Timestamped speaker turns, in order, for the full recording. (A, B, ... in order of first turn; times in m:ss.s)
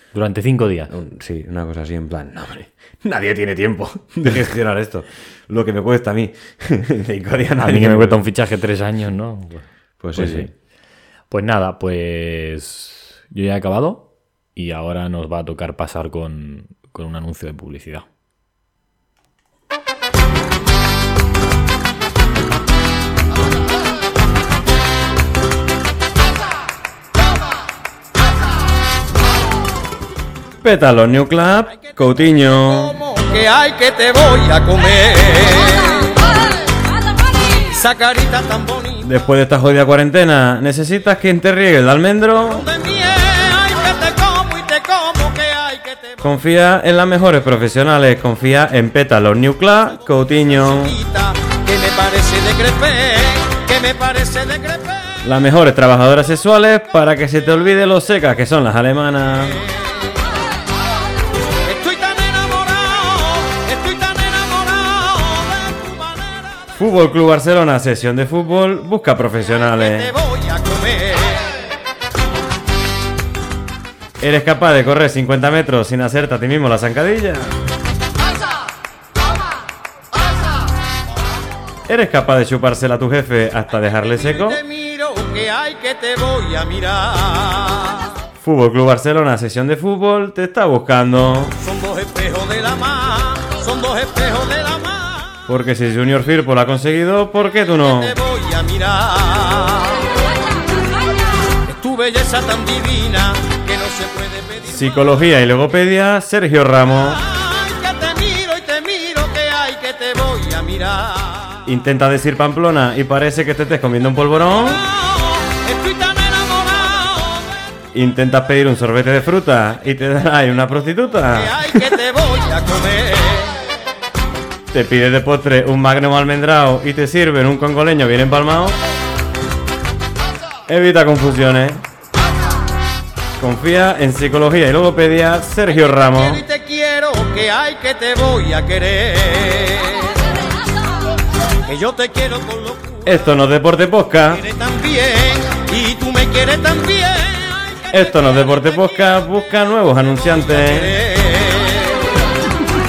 0:00.1-0:00.9 A
0:00.9-0:08.2 B
0:07.6-0:10.5 A
0:10.0-0:10.5 B
0:11.3-0:18.0 A
0:30.6-0:33.0 B
0:32.6-0:36.4 C
0:37.5-0:39.0 C
0:39.0-0:42.7 B
0:42.5-0:46.3 C
0:46.2-0:51.0 B
0:50.3-0:55.2 C
0:55.2-0:59.6 B
0:59.6-1:00.2 C
1:01.6-1:06.7 C
1:06.8-1:10.1 B
1:09.6-1:11.6 C
1:14.2-1:17.5 B
1:21.9-1:24.6 B
1:24.2-1:28.1 C
1:28.4-1:31.6 B
1:31.6-1:35.3 C
1:35.5-1:38.2 B
1:37.8-1:40.2 C
1:41.5-1:45.1 C
1:44.7-1:47.2 B
1:47.2-1:51.6 C
1:51.6-1:54.8 B
1:55.1-1:57.6 C
1:57.9-2:01.8 B
2:01.3-2:03.6 C
2:04.7-2:08.8 B
2:10.7-2:11.8 B
2:13.4-2:16.4 B
2:16.1-2:20.5 C
2:21.6-2:23.1 C
2:23.0-2:24.4 B
2:24.3-2:28.6 C
2:27.9-2:31.0 B
2:30.5-2:32.2 C